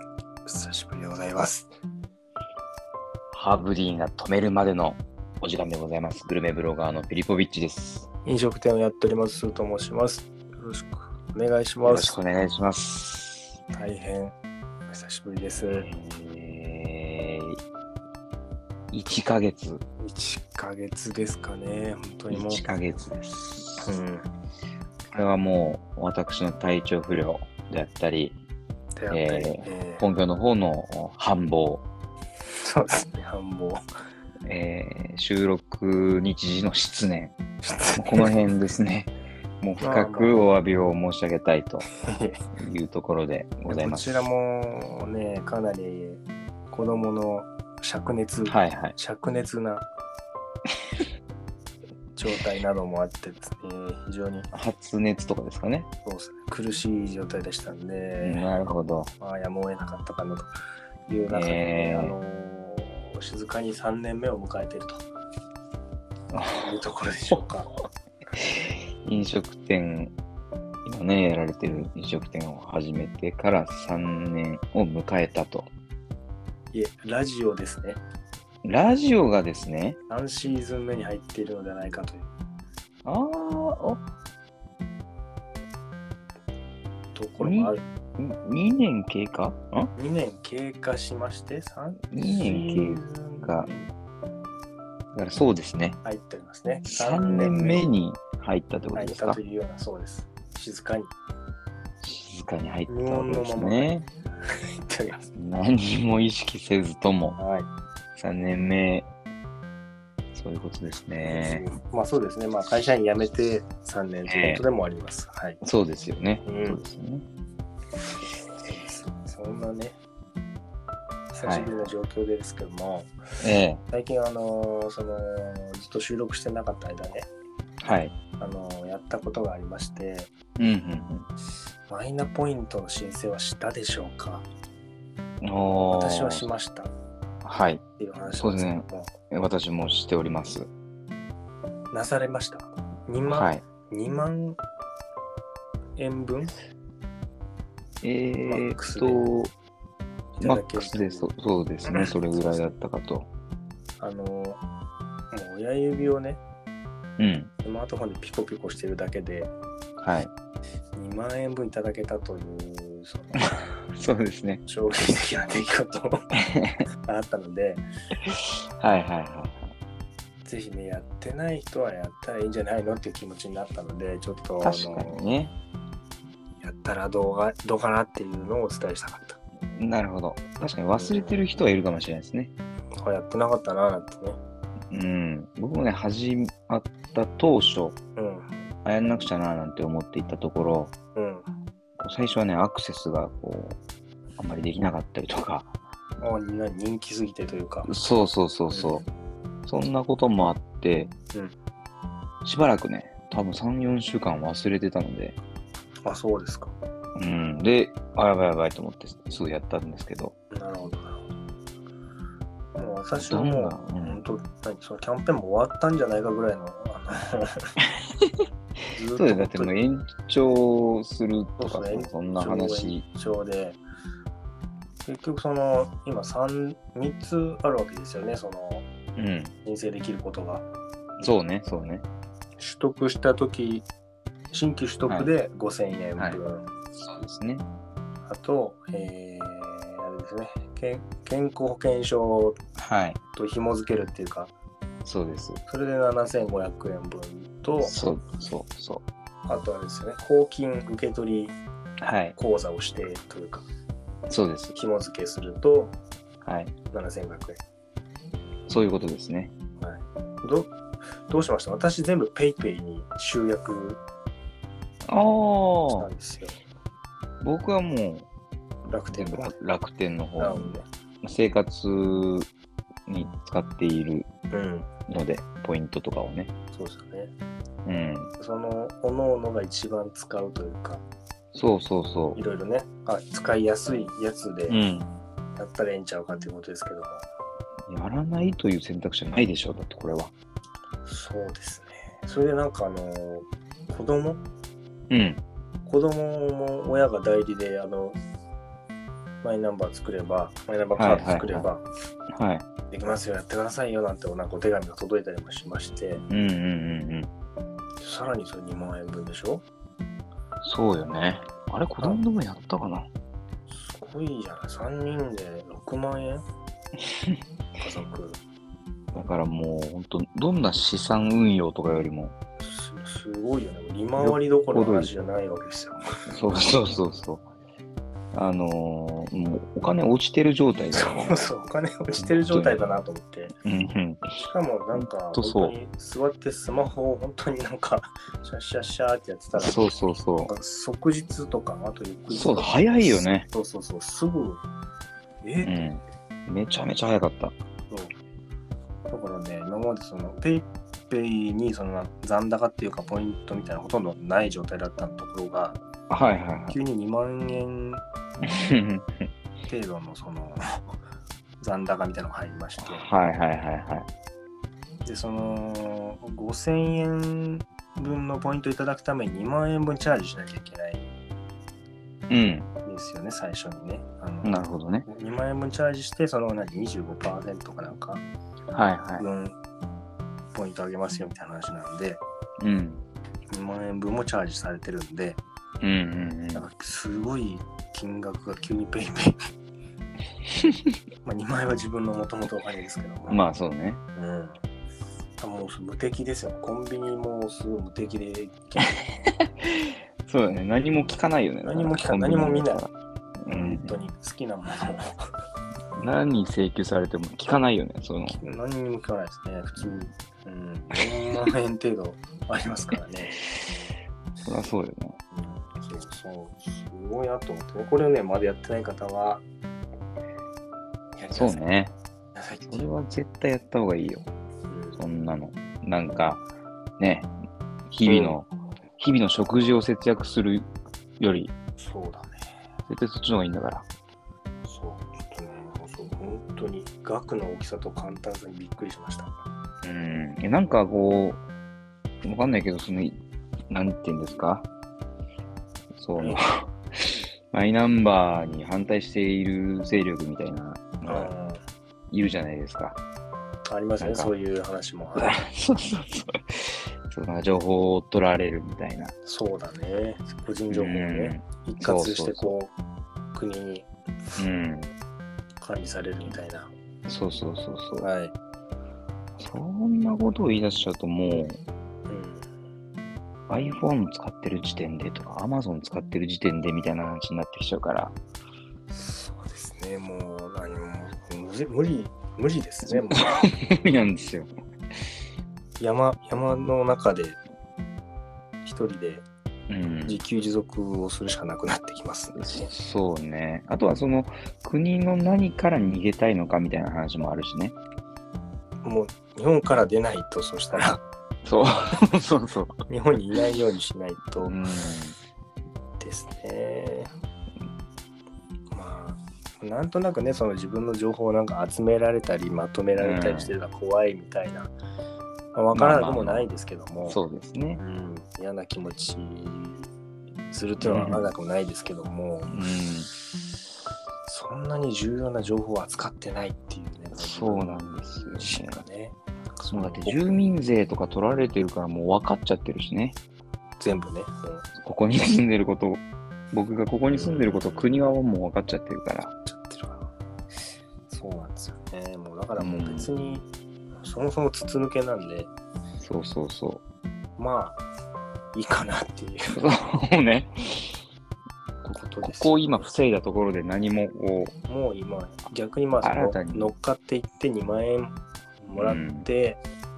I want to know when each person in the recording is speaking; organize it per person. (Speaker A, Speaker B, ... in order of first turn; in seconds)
Speaker A: 0.5-1.7, 8.2-12.2, 13.7-14.3, 14.9-15.9, 20.0-22.6, 23.8-24.3, 29.0-30.0, 32.6-33.8, 37.6-38.3, 39.8-40.5, 42.0-42.4, 43.7-49.9, 52.2-54.5, 56.0-58.4, 59.2-60.5, 61.1-65.0, 66.6-67.7, 76.7-78.0, 80.1-82.3, 87.2-87.8, 90.0-93.9, 96.0-97.9, 98.9-101.1, 102.9-105.3, 107.4-107.7, 111.2-115.6, 116.4-116.8, 118.6-120.0, 121.3-123.1, 123.9-127.3, 128.4-130.3, 131.9-134.5, 135.9-136.9, 138.0-139.1, 141.9-144.6, 146.0-146.5, 148.4-149.2, 150.4-151.3, 151.8-152.7, 154.0-154.6, 155.3-156.4, 157.6-159.5, 160.9-163.6, 164.7-166.2, 167.1-167.8, 170.4-175.3, 176.6-179.4, 180.9-181.4, 183.0-184.4, 188.2-188.5, 191.1-191.4, 196.2-197.9, 198.7-199.0, 206.1-206.8, 210.5-211.2, 212.8-217.7, 218.9-219.8, 221.6-223.8, 225.1-228.9, 229.6-230.7, 232.6-233.8, 234.5-236.7, 238.2-242.6, 243.3-244.5, 245.7-247.9, 249.5-251.5, 252.3-253.7, 254.7-256.0, 256.9-257.6, 259.8-260.7, 261.3-264.0, 265.9-266.6, 268.9-269.5, 270.4-270.9, 274.5-274.9, 276.7-277.3, 278.4-281.0, 282.4-284.8, 285.6-287.2, 291.1-294.4, 295.9-298.2, 299.4-301.8, 302.9-306.2, 308.0-309.6, 313.7-316.4, 317.8-318.4, 322.6-326.1, 330.9-333.5, 334.4-344.6, 345.4-345.7, 349.1-355.8, 356.7-358.0, 359.7-360.9, 361.6-363.1, 365.1-371.1, 372.8-378.2, 379.2-379.6, 380.5-382.2, 383.5-385.4, 386.5-389.4, 391.2-393.4, 394.1-394.6, 395.4-398.9, 401.6-402.9, 403.5-405.3, 408.3-413.4, 415.3-419.4, 421.2-421.6, 422.4-422.9, 424.7-425.0, 428.1-428.4, 431.8-432.4, 434.6-439.4, 446.2-446.4, 451.1-451.6, 453.7-455.4, 459.2-462.7, 463.3-463.9, 465.6-466.7, 468.0-468.4, 472.1-472.5, 478.9-483.2, 485.8-487.4, 488.6-489.2, 490.1-492.7, 498.8-501.0, 502.9-504.6, 506.0-507.1, 508.7-514.7, 515.5-517.2, 517.8-519.9, 520.5-522.5, 524.2-530.2, 533.8-534.6, 537.1-538.0, 539.5-540.1, 541.1-543.5, 544.0-545.5, 547.4-547.8, 548.5-549.6, 551.8-552.9, 554.7-559.6
Speaker B: 3.3-8.1, 11.8-13.6, 15.6-17.6, 18.9-19.8, 22.3-23.9, 25.1-28.4, 29.1-31.9, 34.5-37.3, 38.0-41.9, 42.6-44.2, 48.5-49.0, 54.5-55.9, 58.2-59.1, 61.3-62.1, 66.3-66.7, 68.4-70.1, 70.8-75.7, 78.6-80.0, 83.0-84.0, 87.4-89.9, 92.1-93.7, 95.1-96.0, 96.9-99.4, 102.0-104.1, 105.3-107.4, 108.2-109.1, 110.3-111.7, 114.2-114.6, 115.6-117.2, 121.4-121.8, 123.4-123.8, 127.8-128.1, 130.6-131.3, 135.4-136.4, 137.4-137.8, 138.4-140.7, 143.3-143.6, 148.0-149.5, 150.4-153.3, 157.2-157.5, 160.0-160.3, 163.9-164.6, 166.5-166.8, 168.3-169.7, 174.6-175.5, 179.8-182.5, 184.9-187.9, 188.8-190.9, 192.0-193.8, 194.4-195.7, 197.8-199.0, 199.7-201.1, 202.4-205.3, 207.2-210.3, 213.2-214.2, 219.1-223.0, 229.2-229.5, 231.2-232.1, 236.9-237.7, 242.8-243.2, 245.0-245.6, 247.8-249.0, 252.0-252.3, 254.3-254.7, 256.4-256.7, 258.7-259.5, 265.1-266.1, 267.4-268.3, 269.1-272.5, 273.1-274.3, 275.1-276.5, 277.9-278.3, 281.5-282.4, 284.7-285.1, 287.9-290.3, 295.1-295.4, 301.0-301.7, 302.3-302.6, 306.3-307.3, 310.6-313.1, 319.1-322.3, 324.2-325.1, 326.3-327.5, 328.3-331.5, 332.1-332.8, 333.6-334.4, 334.9-335.8, 339.6-340.5, 342.3-343.5, 345.6-347.5, 356.1-356.8, 358.4-359.3, 362.8-364.1, 372.3-372.7, 374.4-375.1, 378.7-379.3, 382.6-383.0, 385.8-386.7, 393.3-394.0, 399.6-403.9, 406.0-408.4, 414.4-415.2, 421.3-421.9, 422.7-424.3, 424.9-426.4, 427.0-427.3, 427.9-430.7, 431.2-431.5, 432.9-433.9, 439.8-441.4, 442.2-443.2, 443.7-444.7, 446.0-451.3, 452.1-453.0, 454.0-454.3, 455.1-459.1, 460.7-462.5, 464.4-464.9, 467.1-468.1, 469.4-471.6, 473.5-478.1, 482.9-484.5, 489.7-490.2, 492.4-497.8, 501.4-502.7, 504.4-505.2, 512.9-513.5, 515.7-516.5, 517.0-517.8, 520.8-521.3, 522.5-523.1, 527.1-528.8, 529.7-533.2, 534.8-539.3, 542.6-543.1, 546.0-546.8, 549.5-550.9, 552.2-554.5, 556.0-556.7, 558.8-559.3